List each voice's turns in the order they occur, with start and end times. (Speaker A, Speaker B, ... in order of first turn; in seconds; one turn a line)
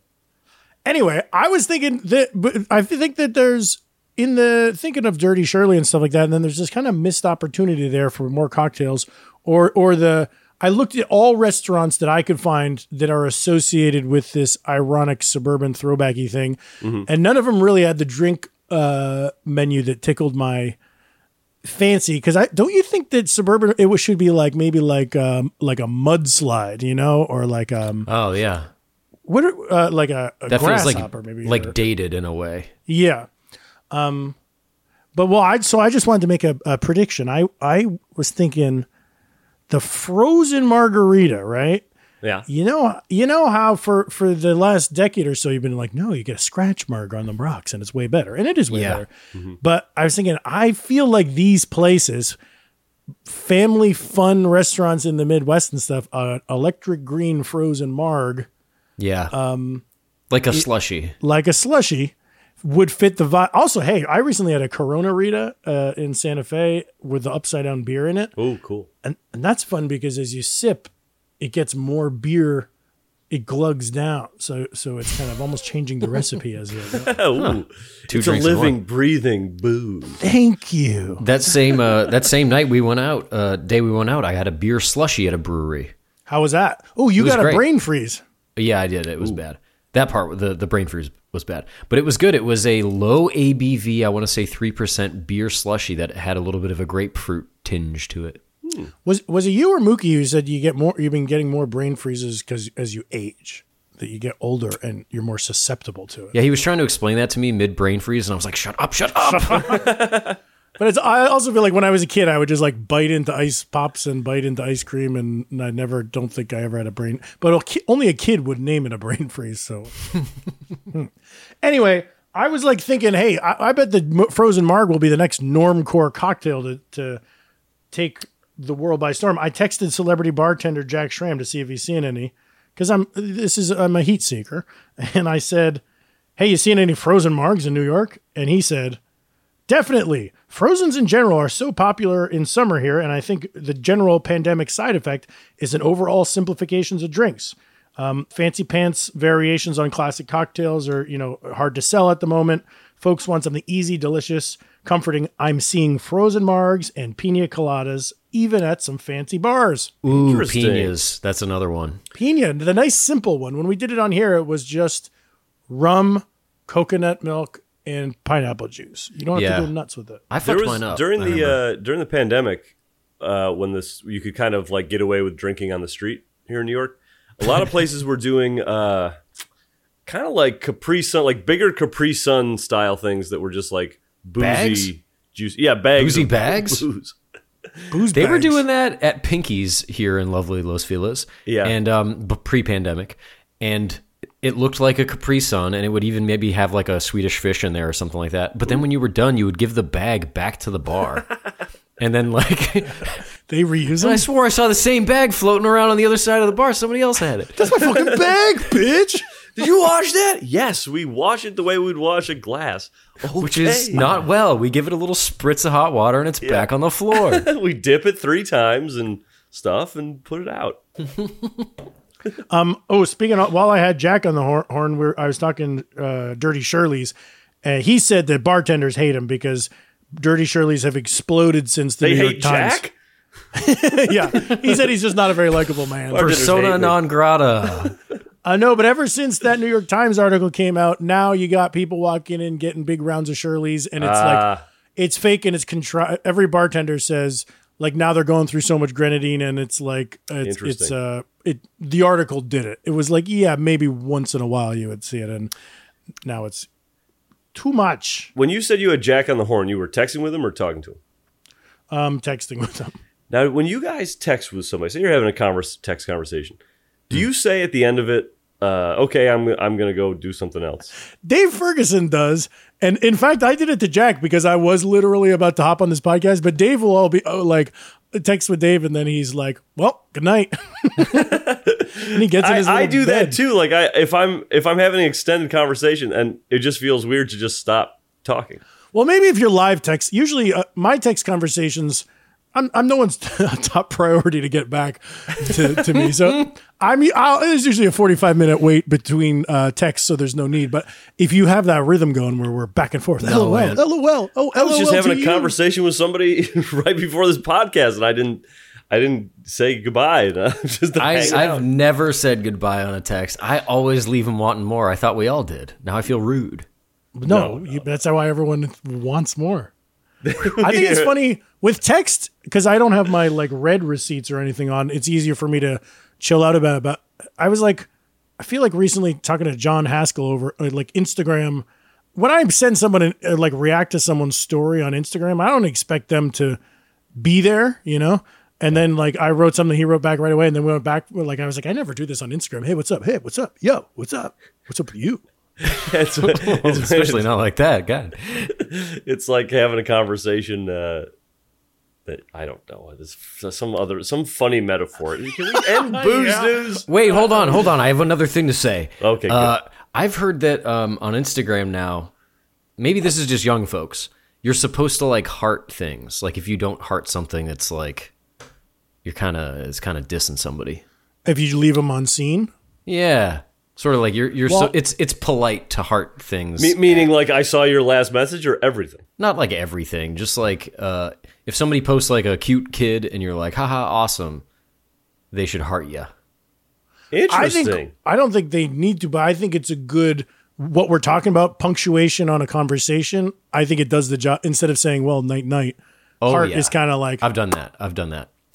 Speaker A: 0.8-20.8
Speaker B: 16.8-17.1
Speaker A: 21.6-28.1
Speaker C: 28.1-28.7
Speaker A: 29.3-31.8
Speaker C: 30.5-32.7
Speaker A: 32.9-33.3
Speaker A: 33.9-34.4
Speaker A: 35.1-38.9
Speaker A: 39.7-41.8
Speaker A: 42.5-49.1
Speaker C: 48.7-49.0
Speaker A: 49.6-52.4
Speaker A: 53.2-58.5
Speaker C: 59.0-59.3
Speaker A: 59.3-59.8
Speaker C: 60.3-61.1
Speaker A: 61.2-68.3
Speaker B: 68.4-68.9
Speaker A: 69.0-72.7
Speaker A: 73.3-77.1
Speaker B: 77.0-80.2
Speaker C: 77.4-78.8
Speaker A: 80.2-81.2
Speaker C: 81.2-85.9
Speaker A: 86.3-88.2
Speaker C: 87.2-87.6
Speaker C: 88.5-98.4
Speaker A: 99.0-106.3
Speaker C: 106.3-109.9
Speaker A: 109.2-110.0
Speaker B: 109.9-110.3
Speaker A: 110.8-119.9
Speaker A: 121.6-127.2
Speaker A: 127.9-135.8
Speaker A: 136.4-139.0
Speaker A: 139.7-159.9
Speaker C: 160.0-162.0
Speaker B: 160.1-160.9
Speaker A: 162.1-165.1
Speaker A: 165.7-170.2
Speaker C: 169.3-169.7
Speaker C: 170.3-171.6
Speaker B: 170.4-179.1
Speaker B: 180.1-187.1
Speaker C: 184.4-184.9
Speaker C: 185.9-186.8
Speaker A: 187.9-188.6
Speaker C: 188.1-201.3
Speaker B: 191.5-191.7
Speaker C: 202.0-203.2
Speaker A: 203.5-204.2
Speaker C: 204.0-207.8
Speaker A: 207.6-209.2
Speaker B: 209.6-214.2
Speaker C: 213.4-217.5
Speaker B: 216.4-220.8
Speaker A: 222.5-232.8
Speaker B: 232.0-232.9
Speaker A: 233.5-236.4
Speaker B: 236.1-237.0
Speaker C: 236.1-237.9
Speaker A: 238.4-255.5
Speaker B: 244.0-244.6
Speaker B: 250.4-250.9
Speaker A: 256.2-256.7
Speaker A: 257.5-258.3
Speaker B: 258.4-261.0
Speaker A: 261.9-262.9
Speaker B: 263.3-266.6
Speaker B: 267.1-270.9
Speaker A: 271.2-281.4
Speaker B: 281.1-288.6
Speaker A: 282.1-283.4
Speaker A: 288.9-305.5
Speaker C: 303.2-303.8
Speaker B: 304.6-311.6
Speaker C: 311.0-316.6
Speaker A: 317.1-319.7
Speaker B: 317.3-317.8
Speaker B: 320.2-321.1
Speaker A: 320.4-327.9
Speaker A: 328.4-331.6
Speaker A: 332.1-336.6
Speaker A: 337.2-345.2
Speaker B: 345.6-347.2
Speaker C: 346.2-348.5
Speaker B: 348.6-351.1
Speaker B: 352.1-356.9
Speaker A: 355.6-357.6
Speaker C: 356.9-362.1
Speaker B: 359.0-359.5
Speaker C: 362.8-368.1
Speaker C: 369.0-370.8
Speaker A: 371.2-372.5
Speaker C: 372.9-377.1
Speaker A: 374.5-374.7
Speaker B: 376.6-379.0
Speaker C: 379.2-384.4
Speaker C: 385.3-386.1
Speaker B: 387.1-387.9
Speaker A: 387.3-397.2
Speaker C: 396.2-398.3